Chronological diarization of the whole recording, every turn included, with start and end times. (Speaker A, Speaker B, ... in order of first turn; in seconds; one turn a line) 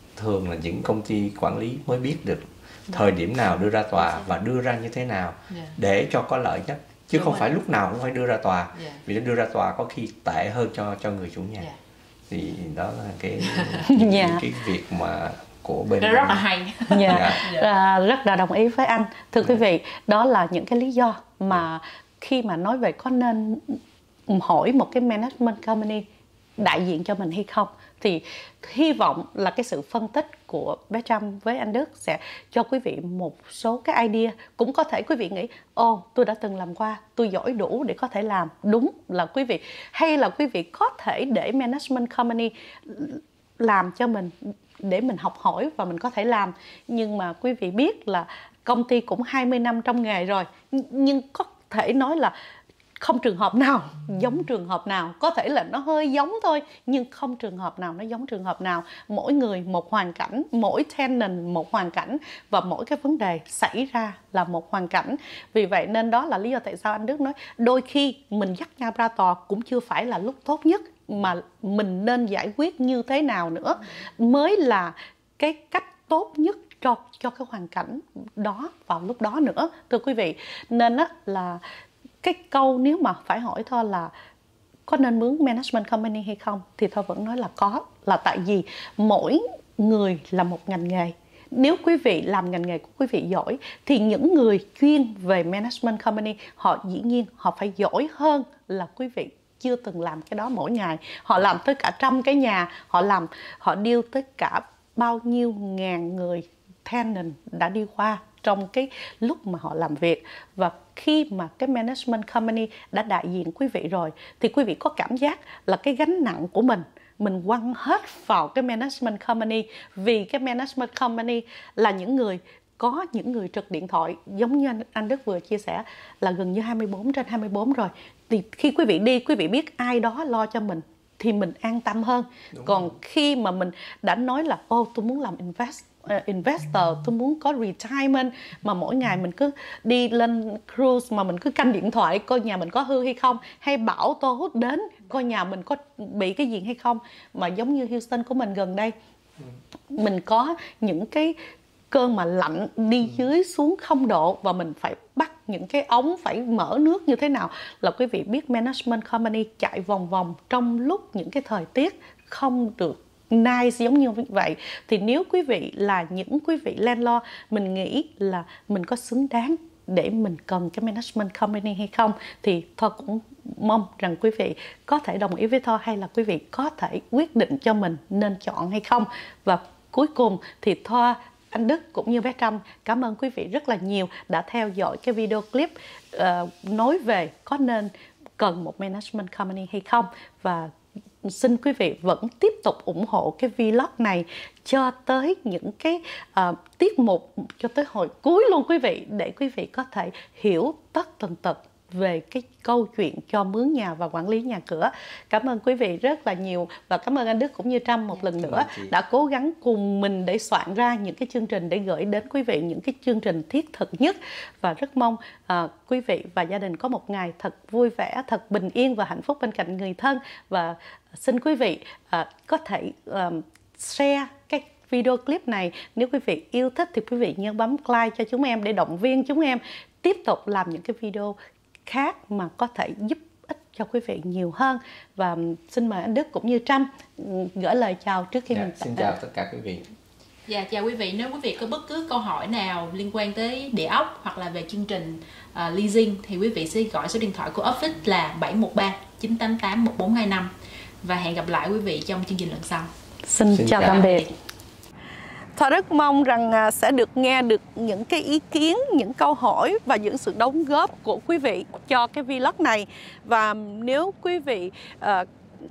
Speaker A: 0.2-11.7
Speaker B: 4.0-4.3
Speaker B: 5.5-5.8
Speaker B: 7.1-7.5
Speaker B: 8.7-9.0
Speaker A: 12.3-16.4
Speaker B: 13.5-13.9
Speaker C: 13.9-14.4
Speaker B: 16.0-17.7
Speaker C: 16.9-26.0
Speaker A: 17.1-17.4
Speaker C: 26.6-52.3
Speaker C: 53.0-81.6
Speaker C: 82.2-84.1
Speaker C: 84.9-148.9
Speaker C: 149.9-151.4
Speaker C: 151.9-190.7
Speaker C: 191.2-231.3
Speaker A: 208.4-208.9
Speaker C: 231.9-239.2
Speaker A: 238.5-239.9
Speaker B: 240.5-250.5
Speaker B: 251.0-252.9
Speaker C: 253.3-254.3
Speaker A: 253.5-254.0
Speaker B: 253.8-254.3
Speaker C: 255.6-265.3